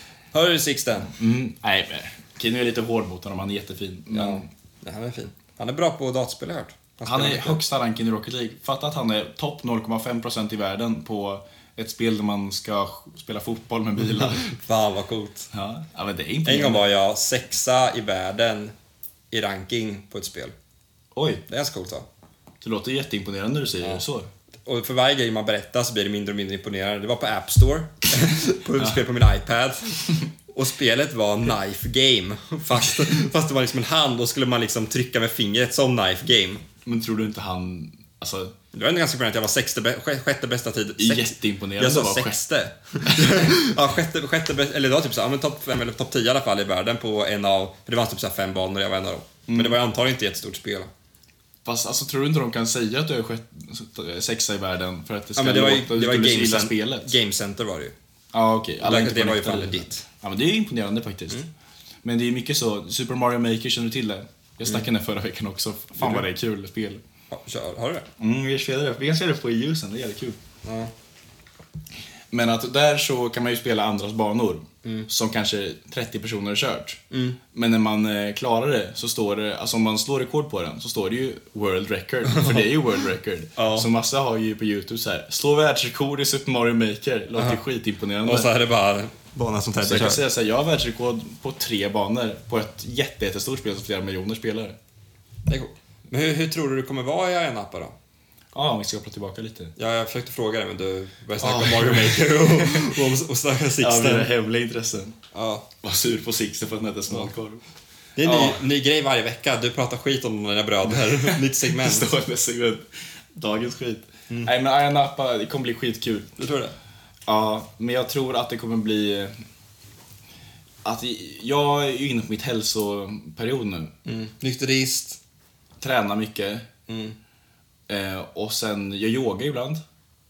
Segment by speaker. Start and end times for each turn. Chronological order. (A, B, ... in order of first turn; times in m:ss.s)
0:00.3-0:01.1 A
0:01.2-0:04.5 B
0:04.1-0:07.6 A
0:07.0-0:14.5 B
0:14.1-0:15.5 A
0:15.5-0:16.9 B
0:16.4-0:18.7 A
0:19.3-0:20.5 A
0:21.1-0:21.4 B
0:21.5-0:22.1 A
0:22.6-0:24.3 B
0:24.7-0:36.6 A
0:36.8-0:38.5 B
0:38.7-0:50.9 A
0:41.0-0:42.4 B
0:43.0-0:43.6 B
0:49.5-0:49.8 B
0:51.6-0:57.1 B
0:55.4-0:57.9 A
0:58.3-1:01.4 B
0:58.8-1:00.1 A
1:02.0-1:07.0 B
1:06.0-1:06.3 A
1:07.3-1:08.1 A
1:08.2-1:10.4 B
1:10.6-1:10.9 A
1:12.3-1:17.0 B
1:17.1-1:17.4 A
1:17.5-1:28.5 B
1:22.3-1:22.6 A
1:23.6-1:23.9 A
1:27.4-1:27.6 A
1:28.2-1:30.2 A
1:29.8-1:34.8 B
1:35.5-1:37.9 A
1:38.5-1:39.7 B
1:39.8-1:44.3 A
1:41.4-1:43.0 B
1:43.8-1:45.2 B
1:45.3-1:45.7 A
1:45.8-1:47.6 B
1:48.2-1:52.1 A
1:48.2-1:48.6 B
1:50.9-1:56.3 B
1:54.3-1:54.6 A
1:56.4-1:56.7 A
1:57.3-1:59.4 B
2:00.8-2:03.9 B
2:04.1-2:05.2 A
2:05.8-2:06.7 B
2:06.9-2:07.2 A
2:07.9-2:09.8 B